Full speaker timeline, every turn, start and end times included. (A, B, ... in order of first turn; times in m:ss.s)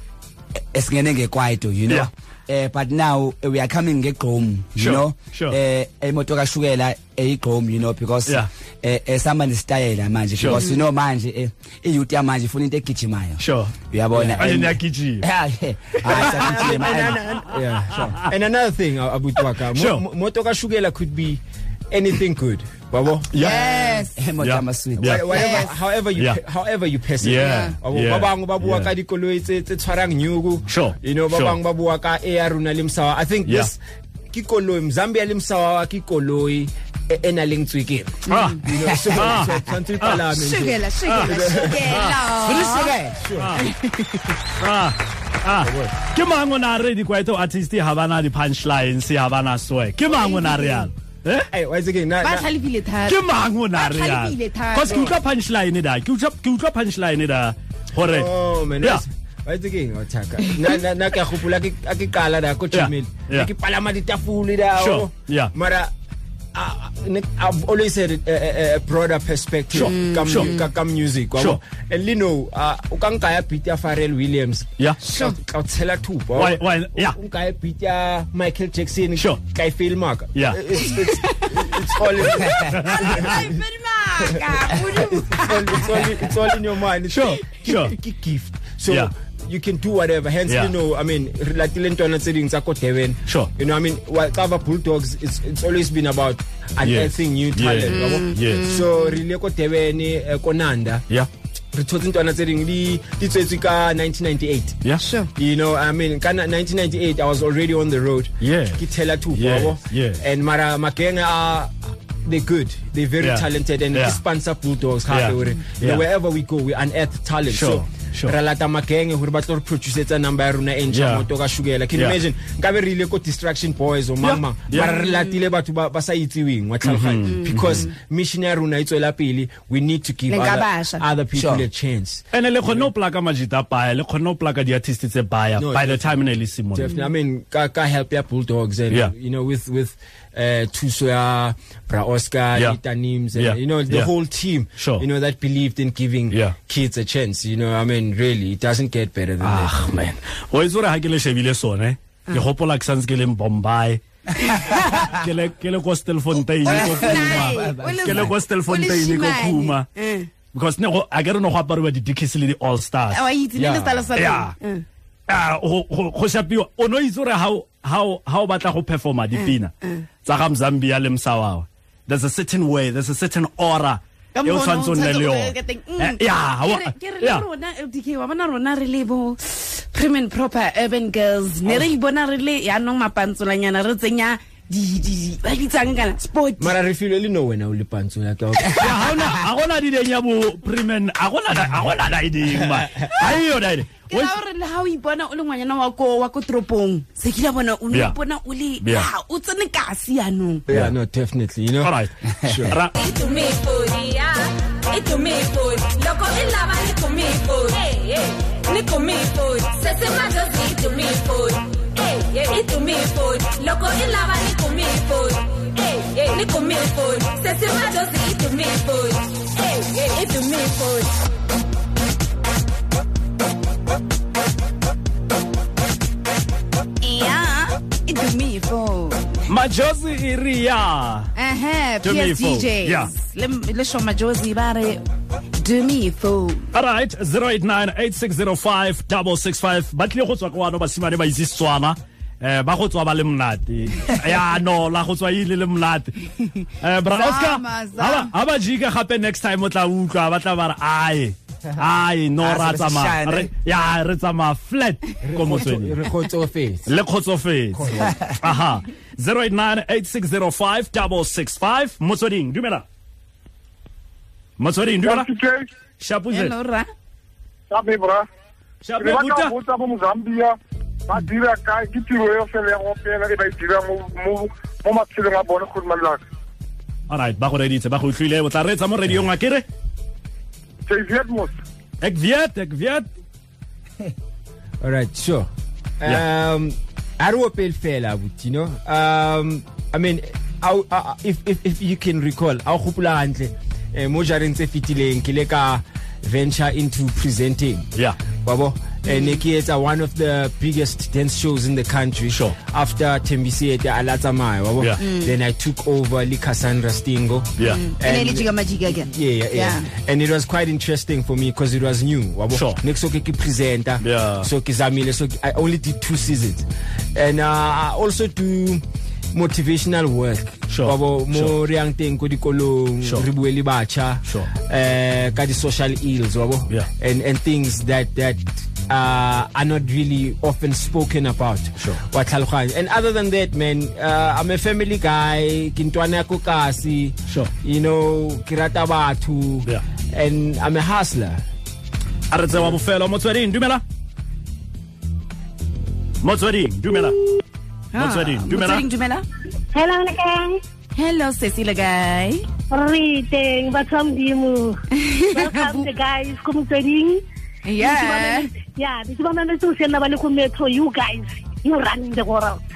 0:00.7-0:17.2 A
0:04.8-0:05.6 B
0:10.4-0:10.6 B
0:13.4-0:13.7 B
0:14.1-0:14.6 C
0:14.4-0:15.2 B
0:16.0-0:24.0 C
0:19.8-0:20.0 B
0:23.3-0:23.6 B
0:23.3-0:24.2 D
0:24.2-0:25.3 A
0:24.4-0:25.5 B
0:25.0-0:33.8 C
0:25.3-0:25.8 D
0:27.2-0:28.9 B
0:27.4-0:27.7 D
0:30.7-0:31.6 B
0:33.5-0:33.7 B
0:34.3-0:43.6 C
0:38.3-0:40.2 B
0:38.3-0:38.6 D
0:40.3-0:43.1 D
0:41.0-0:42.2 B
0:43.4-0:43.6 B
0:43.6-0:44.2 D
0:44.6-0:51.5 B
0:45.6-0:45.9 C
0:50.1-0:50.9 D
0:51.5-0:52.5 C
0:52.2-0:53.2 D
0:53.1-0:59.0 B
0:53.8-0:55.1 D
0:58.0-1:05.9 C
1:02.7-1:03.5 B
1:04.8-1:05.5 B
1:06.5-1:23.6 C
1:09.7-1:10.5 B
1:09.8-1:10.7 D
1:15.0-1:15.4 D
1:16.4-1:17.2 B
1:20.4-1:20.6 B
1:20.9-1:21.6 D
1:22.4-1:26.3 D
1:22.7-1:23.3 B
1:24.3-1:41.0 C
1:27.1-1:28.0 B
1:30.5-1:30.7 B
1:36.8-1:38.7 B
1:37.9-1:39.2 D
1:41.7-1:44.8 C
1:45.0-1:45.3 D
1:45.4-2:12.9 C
1:48.4-1:48.8 B
1:49.3-1:50.2 B
1:53.2-1:54.2 B
1:55.1-1:56.0 B
1:57.5-1:58.4 B
2:00.9-2:01.2 B
2:04.2-2:04.9 B
2:04.8-2:05.4 D
2:06.8-2:07.9 B
2:10.3-2:11.0 D
2:11.4-2:11.7 A
2:12.3-2:16.9 B
2:15.6-2:16.2 C
2:16.7-2:30.1 C
2:23.4-2:24.1 B
2:24.8-2:25.0 B
2:26.3-2:26.6 B
2:29.4-2:34.0 B
2:34.6-2:35.0 D
2:35.0-2:39.9 B
2:36.6-2:40.3 D
2:36.7-2:38.3 A
2:40.5-2:44.5 B
2:43.1-2:44.8 D
2:43.6-2:44.0 C
2:45.3-2:49.7 B
2:49.4-2:50.0 D
2:50.2-2:57.5 B
2:54.4-3:06.8 D
3:01.6-3:01.9 C
3:06.6-3:09.1 C
3:08.8-3:14.4 B
3:14.0-3:20.6 D
3:17.9-3:18.2 B
3:18.8-3:19.1 B
3:20.7-3:22.8 C
3:21.8-3:22.1 B
3:22.6-3:23.0 B
3:22.9-3:40.9 E
3:47.0-3:49.4 D
3:49.5-3:51.3 B
3:51.4-3:55.0 D
3:52.0-3:53.1 B
3:55.6-3:56.6 D
3:56.7-4:06.2 B
4:06.8-4:16.0 B
4:07.1-4:08.3 D
4:12.4-4:13.5 A
4:15.2-4:16.9 C
4:16.9-4:22.8 B
4:17.7-4:18.2 C
4:24.6-4:25.3 B
4:25.0-4:25.7 F
4:26.0-4:26.5 B
4:26.3-4:26.9 D
4:27.7-4:28.3 F
4:28.8-4:29.5 B
4:29.0-4:30.6 F
4:31.1-4:36.2 F
4:37.1-4:39.7 B
4:40.9-4:41.6 F
4:42.0-4:43.1 B
4:44.8-4:45.5 C
4:46.0-4:57.9 C
4:58.4-5:08.5 C
4:59.1-4:59.4 D
5:02.3-5:02.6 B
5:05.0-5:05.4 D
5:07.6-5:07.8 B
5:07.6-5:09.9 D
5:09.0-5:41.4 C
5:12.5-5:12.8 B
5:14.0-5:14.5 B
5:20.7-5:21.6 B
5:42.3-5:43.8 B
5:46.2-5:47.2 B
5:47.9-5:49.2 D
5:48.0-5:48.8 B
5:49.7-5:50.6 G
5:51.0-5:52.5 D
5:52.7-5:57.2 G
5:54.9-5:55.9 D
5:57.6-5:58.5 D
5:57.8-6:02.6 G